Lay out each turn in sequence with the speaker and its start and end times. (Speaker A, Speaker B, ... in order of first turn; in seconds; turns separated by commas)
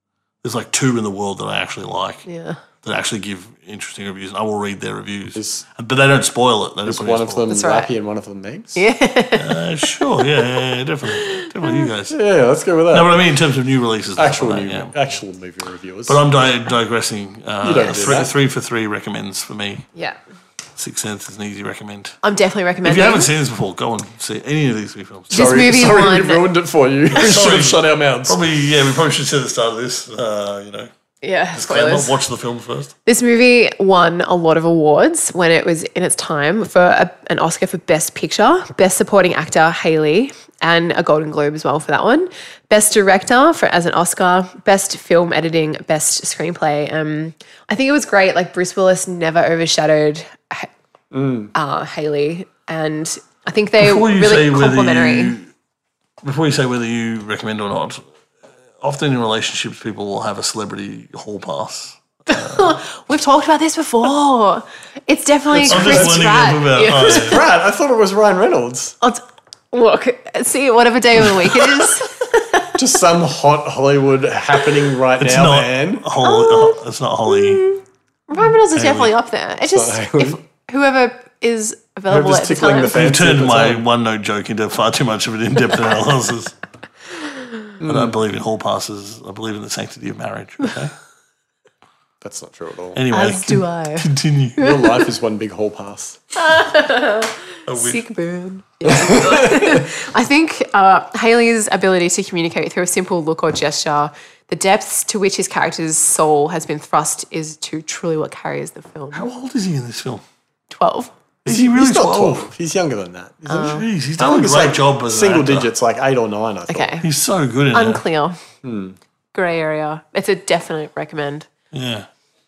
Speaker A: 0.4-2.3, Speaker B: 2.2-2.6, Speaker A: 2.8-7.5, Speaker C: 5.3-5.6, Speaker C: 6.8-8.8, Speaker B: 7.5-7.9, Speaker B: 8.8-10.3, Speaker A: 9.4-12.2, Speaker B: 11.1-11.9, Speaker C: 12.1-13.2, Speaker A: 12.9-14.9, Speaker C: 14.2-16.2, Speaker A: 16.1-19.9, Speaker C: 17.6-18.3, Speaker A: 20.8-22.2, Speaker B: 22.2-23.3, Speaker A: 22.8-25.6, Speaker C: 25.3-28.4, Speaker B: 25.3-26.5, Speaker A: 27.1-30.9, Speaker B: 31.2-32.2, Speaker A: 31.5-32.9, Speaker B: 33.0-50.7, Speaker C: 51.1-51.5, Speaker B: 51.5-55.4, Speaker A: 53.8-55.5, Speaker A: 56.2-58.0, Speaker A: 58.8-62.8, Speaker B: 62.3-67.4, Speaker C: 65.5-66.4, Speaker A: 65.6-67.4, Speaker C: 66.9-69.0, Speaker B: 69.0-72.8, Speaker C: 72.8-76.0, Speaker A: 75.2-77.6, Speaker B: 76.2-83.0, Speaker A: 78.7-79.1, Speaker C: 79.7-80.4, Speaker C: 82.1-83.8, Speaker A: 82.9-86.5, Speaker C: 87.8-88.2, Speaker A: 87.8-90.9, Speaker C: 92.2-93.0, Speaker A: 92.9-94.6, Speaker B: 93.1-95.0, Speaker C: 94.6-96.2, Speaker B: 96.3-109.3, Speaker A: 97.7-98.0, Speaker C: 98.8-99.8, Speaker A: 109.1-110.2, Speaker B: 110.7-111.1, Speaker A: 111.4-112.5, Speaker C: 111.4-116.9, Speaker B: 113.5-113.9, Speaker A: 113.6-115.7, Speaker B: 116.7-117.1, Speaker A: 117.0-118.0, Speaker B: 117.7-118.4, Speaker C: 118.6-119.0, Speaker B: 119.3-121.5, Speaker A: 121.7-122.1